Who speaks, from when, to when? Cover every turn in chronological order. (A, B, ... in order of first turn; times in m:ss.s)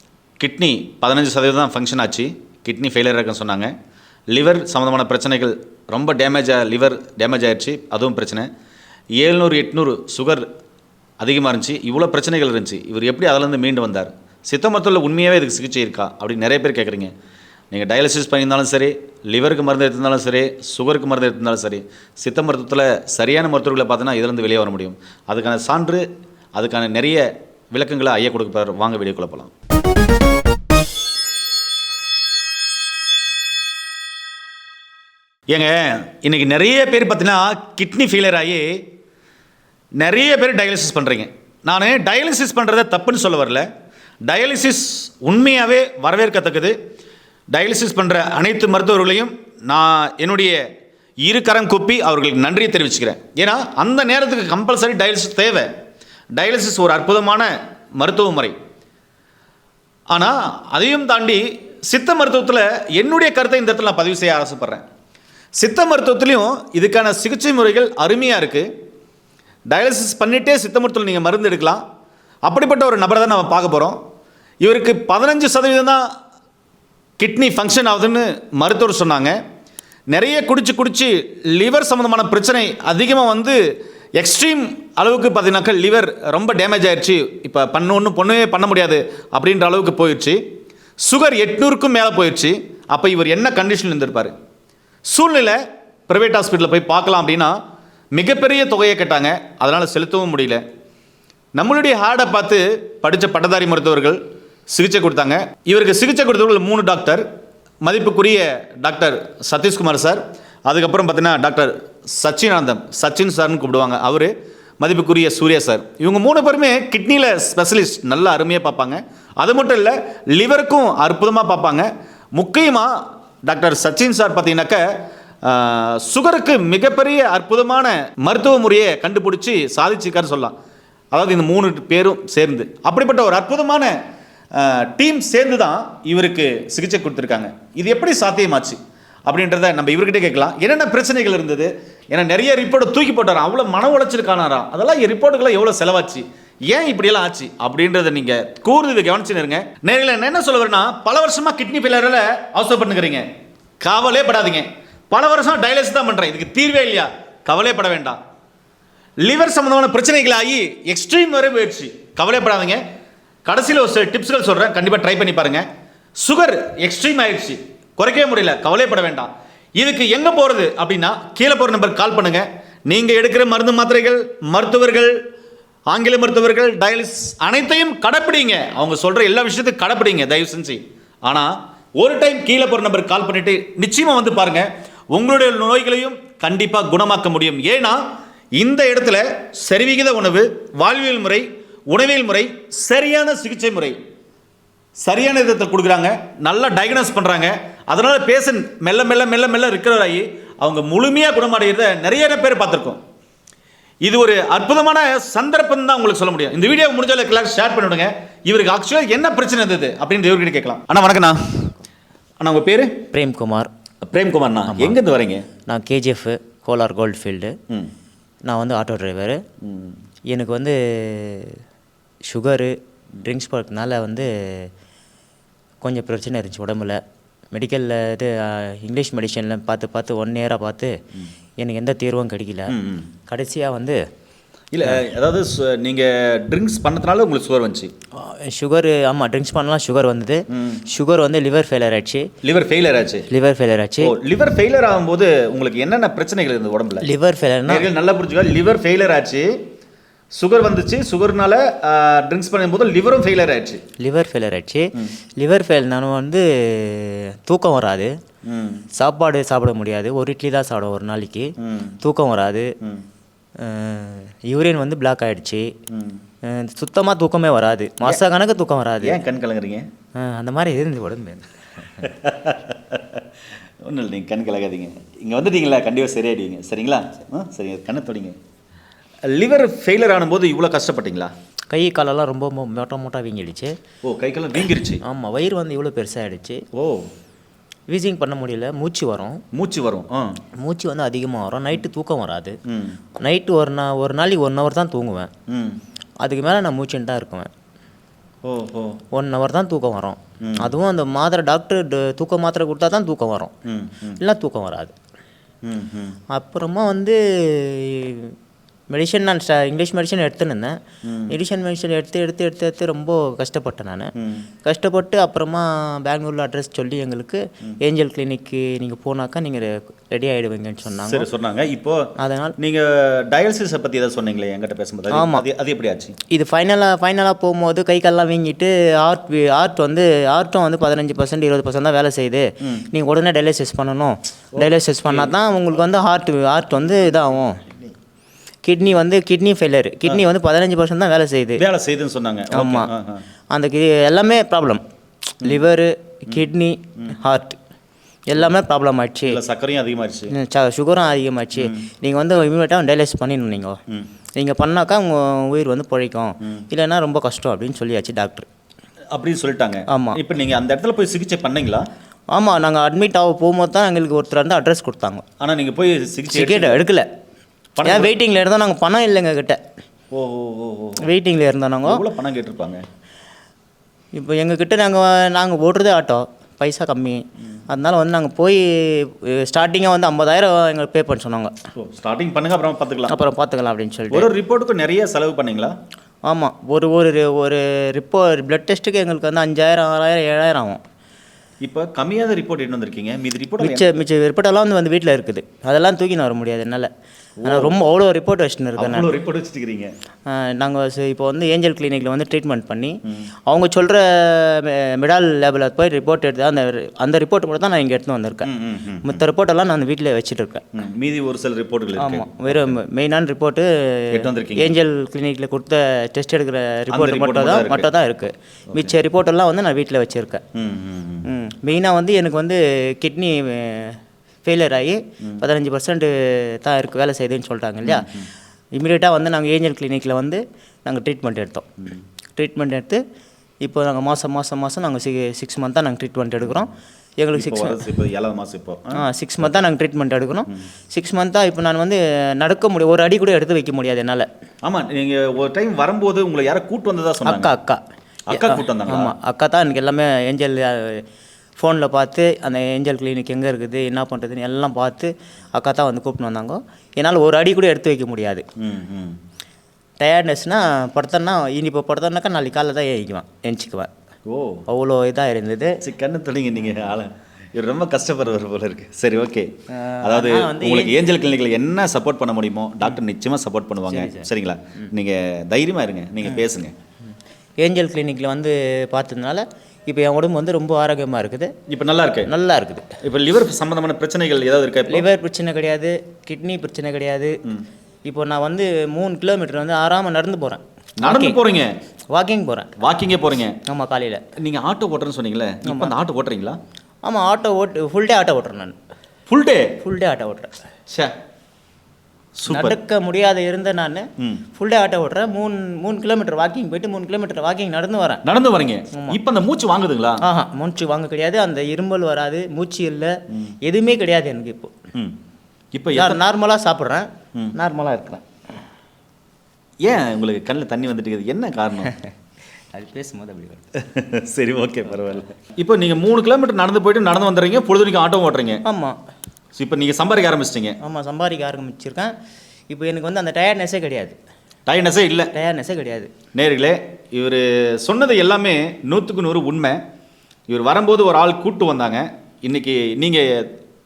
0:00.4-0:03.7 A
0:04.3-0:08.5 A
0:09.2-0:10.5 A
0:11.2-0:17.1 A
0:17.7-0:29.5 A
0:35.5-0:38.8 A
0:40.0-0:43.7 A
0:44.2-0:46.8 A
0:47.5-0:50.6 A
0:51.2-0:55.7 A
0:56.3-0:58.6 A
1:00.1-1:04.8 A
1:05.6-1:08.7 A
1:09.7-1:11.8 A
1:12.4-1:14.0 A
1:14.6-1:16.0 A
1:17.2-1:19.4 A
1:20.1-1:23.6 A
1:24.2-1:30.4 A
1:31.0-1:34.3 A
1:35.1-1:37.6 A
1:38.1-1:40.6 A
1:41.6-1:44.2 A
1:44.7-1:47.2 A
1:47.8-2:04.8 A
2:05.4-2:10.5 A
2:11.1-2:14.0 A
2:14.5-2:33.2 A
2:33.8-2:38.2 A
2:39.2-2:42.8 A
2:43.4-2:45.7 A
2:46.2-2:55.2 A
2:55.9-3:08.0 A
3:08.6-3:14.0 A
3:15.0-3:23.0 A
3:24.0-3:31.7 A
3:32.4-3:33.0 A
3:33.1-3:33.7 B
3:34.0-3:35.4 A
3:34.7-3:35.0 B
3:35.6-3:37.6 B
3:38.4-3:39.4 B
3:39.6-3:40.0 A
3:40.3-3:41.6 B
3:42.2-3:44.7 B
3:45.8-3:47.0 B
3:47.5-3:51.0 B
3:51.6-3:52.7 B
3:52.7-3:53.1 A
3:53.3-3:54.0 B
3:54.7-3:57.9 A
3:58.1-4:02.3 B
4:00.5-4:00.8 A
4:02.4-4:03.3 A
4:03.3-4:04.2 B
4:04.0-4:07.1 A
4:07.0-4:07.9 B
4:07.7-4:09.6 A
4:10.3-4:13.8 A
4:14.0-4:18.2 B
4:18.4-4:18.8 A
4:18.9-4:22.7 B
4:21.6-4:22.0 A
4:23.6-4:25.7 B
4:25.9-4:26.2 A
4:26.4-4:29.2 B
4:29.0-4:29.9 A
4:30.2-4:31.4 B
4:32.0-4:33.2 A
4:33.8-4:38.4 A
4:39.3-4:41.3 A
4:41.7-4:43.8 B
4:44.0-4:45.0 A
4:45.0-4:46.6 B
4:46.7-4:47.1 A
4:47.9-4:49.4 B
4:49.5-4:50.4 A
4:50.6-4:52.6 B
4:52.7-4:53.0 A
4:53.2-4:55.3 B
4:55.5-4:55.8 A
4:56.2-4:57.5 B
4:58.4-4:59.0 A
4:59.1-5:03.5 B
5:00.4-5:00.7 A
5:03.6-5:04.2 A
5:04.2-5:04.9 B
5:05.6-5:06.2 A
5:06.3-5:08.3 B
5:08.9-5:10.8 B
5:11.0-5:11.3 A
5:11.3-5:14.1 B
5:14.2-5:14.4 A
5:14.6-5:21.3 B
5:21.1-5:26.1 A
5:22.2-5:22.6 B
5:25.1-5:25.4 B
5:26.3-5:37.6 B
5:32.6-5:32.9 A
5:34.6-5:35.3 A
5:38.6-5:41.6 B
5:41.6-5:43.2 A
5:42.5-5:42.9 B
5:43.5-5:44.8 B
5:45.4-5:47.6 B
5:48.3-5:49.4 B
5:49.2-5:50.3 A
5:50.3-5:53.8 B
5:51.6-5:51.8 A
5:54.4-5:58.5 B
5:59.1-6:01.9 A
5:59.9-6:00.2 B
6:02.3-6:05.2 B
6:05.4-6:06.8 A
6:06.3-6:07.1 B
6:07.8-6:08.1 A
6:07.8-6:09.6 B
6:10.1-6:11.1 A
6:11.0-6:12.0 B
6:11.8-6:12.8 A
6:14.1-6:21.5 B
6:21.7-6:23.1 A
6:23.1-6:24.3 B
6:24.1-6:25.8 A
6:26.2-6:30.8 B
6:31.6-6:33.8 A
6:33.6-6:36.9 B
6:37.4-6:37.7 A
6:37.4-6:39.1 B
6:38.8-6:39.9 A
6:40.3-6:48.5 B
6:48.4-6:49.2 A
6:49.0-6:50.6 B
6:50.7-6:52.7 A
6:52.0-7:00.4 B
6:54.1-6:54.7 A
6:56.9-6:57.9 A
7:00.5-7:01.3 A
7:01.3-7:08.1 B
7:07.8-7:08.3 A
7:08.7-7:11.7 B
7:12.4-7:13.0 B
7:13.6-7:17.8 B
7:17.3-7:19.6 A
7:18.9-7:24.3 B
7:24.6-7:27.5 A
7:27.2-7:27.8 B
7:28.3-7:29.1 A
7:28.3-7:31.0 B
7:31.6-7:38.4 B
7:38.6-7:39.2 A
7:40.0-7:43.9 B
7:44.3-7:44.6 A
7:44.7-7:45.8 B
7:45.8-7:49.5 A
7:49.7-7:51.0 B
7:50.0-7:56.7 A
7:53.9-7:54.2 B
7:57.6-8:01.5 B
8:01.7-8:02.3 A
8:02.3-8:03.0 B
8:03.0-8:05.0 A
8:04.9-8:07.4 B
8:08.0-8:11.4 B
8:11.0-8:11.7 A
8:12.1-8:12.7 B
8:12.8-8:13.6 A
8:13.7-8:14.2 B
8:14.4-8:16.6 A
8:15.6-8:15.9 B
8:17.0-8:18.8 B
8:19.3-8:19.8 A
8:19.8-8:20.5 B
8:22.4-8:22.8 A
8:22.5-8:28.2 B
8:24.2-8:24.4 A
8:28.2-8:30.2 A
8:28.9-8:29.2 B
8:30.2-8:34.8 B
8:35.7-8:36.2 A
8:36.0-8:38.2 B
8:39.8-8:41.9 A
8:42.7-8:43.6 B
8:43.8-8:48.6 A
8:48.6-8:49.0 B
8:49.6-8:50.8 A
8:50.8-8:52.1 B
8:52.7-8:54.2 B
8:54.7-8:55.3 A
8:55.3-8:56.1 B
8:56.3-8:59.8 A
9:00.5-9:03.5 A